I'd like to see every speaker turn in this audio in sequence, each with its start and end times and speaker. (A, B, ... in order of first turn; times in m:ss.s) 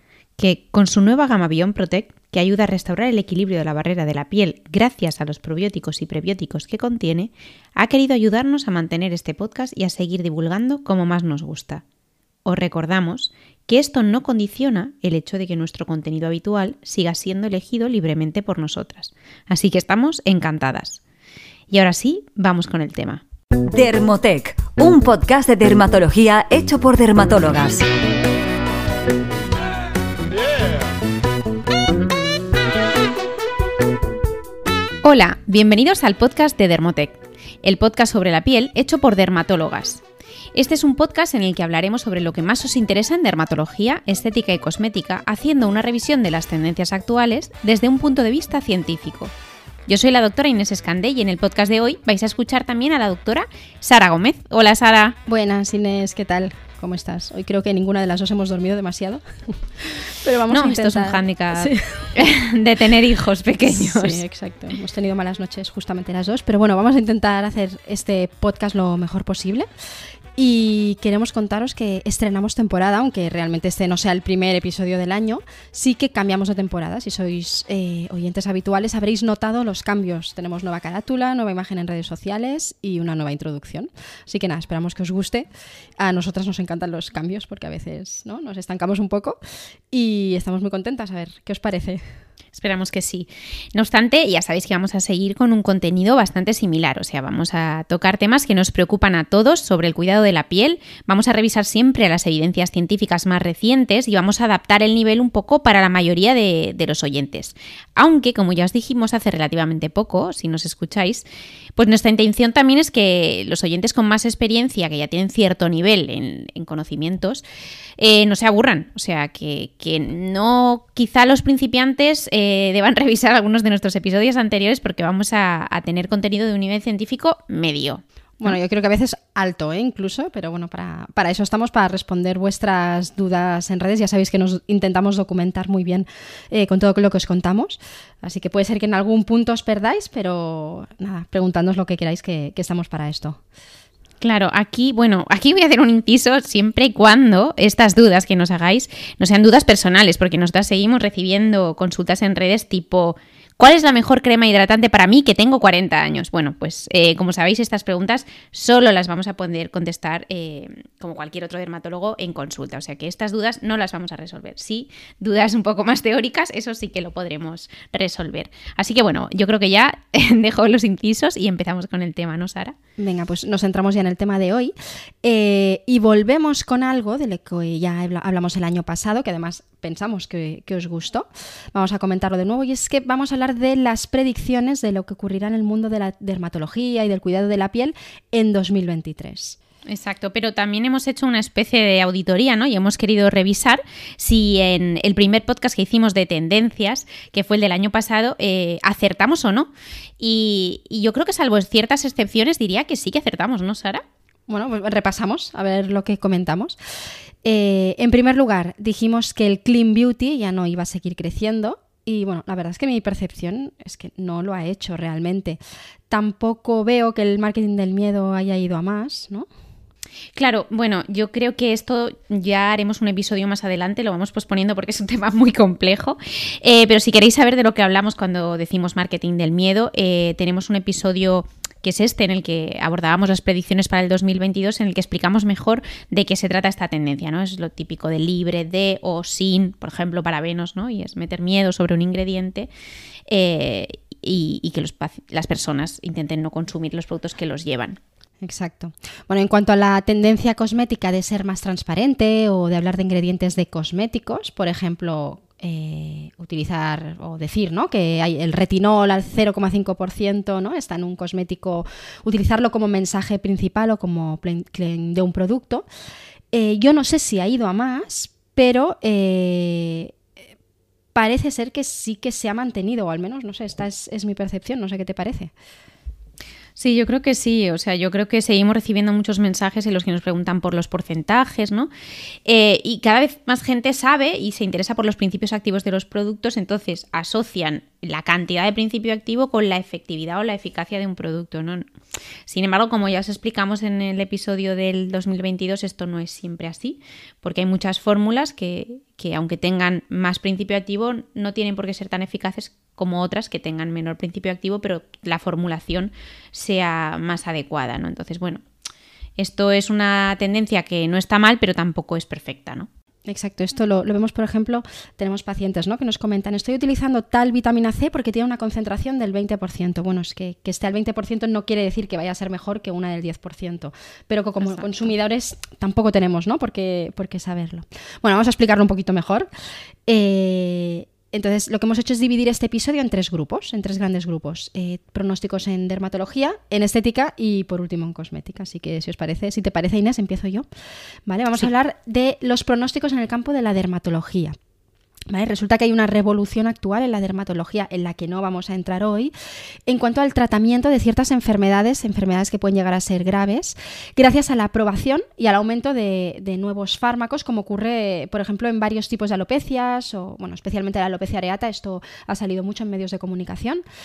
0:00.4-0:11.8 A
0:12.4-0:21.0 A
0:21.7-0:23.2 A
0:23.7-0:27.9 B
0:35.0-0:40.0 A
0:40.5-0:49.3 A
0:49.9-0:55.2 A
0:55.2-1:02.1 C
1:00.5-1:04.2 A
1:03.7-1:09.7 C
1:10.4-1:29.4 C
1:29.9-1:32.1 C
1:32.5-1:51.2 A
1:51.8-1:57.4 A
1:58.0-2:08.6 A
2:08.4-2:23.4 C
2:24.2-2:52.7 A
2:53.0-3:09.6 C
3:09.9-3:24.0 A
3:24.5-3:26.8 C
3:27.4-3:39.5 C
3:40.4-4:02.7 A
4:03.3-4:08.0 A
4:08.4-4:25.9 C
4:26.5-4:30.2 C
4:31.1-4:35.5 C
4:36.8-4:41.9 A
4:42.4-4:51.9 A
4:52.5-5:08.6 A
5:09.4-5:12.9 A
5:13.2-5:29.5 C
5:24.6-5:24.9 A
5:30.1-5:40.6 C
5:41.3-5:44.5 C
5:45.3-5:49.3 C
5:49.9-6:03.8 C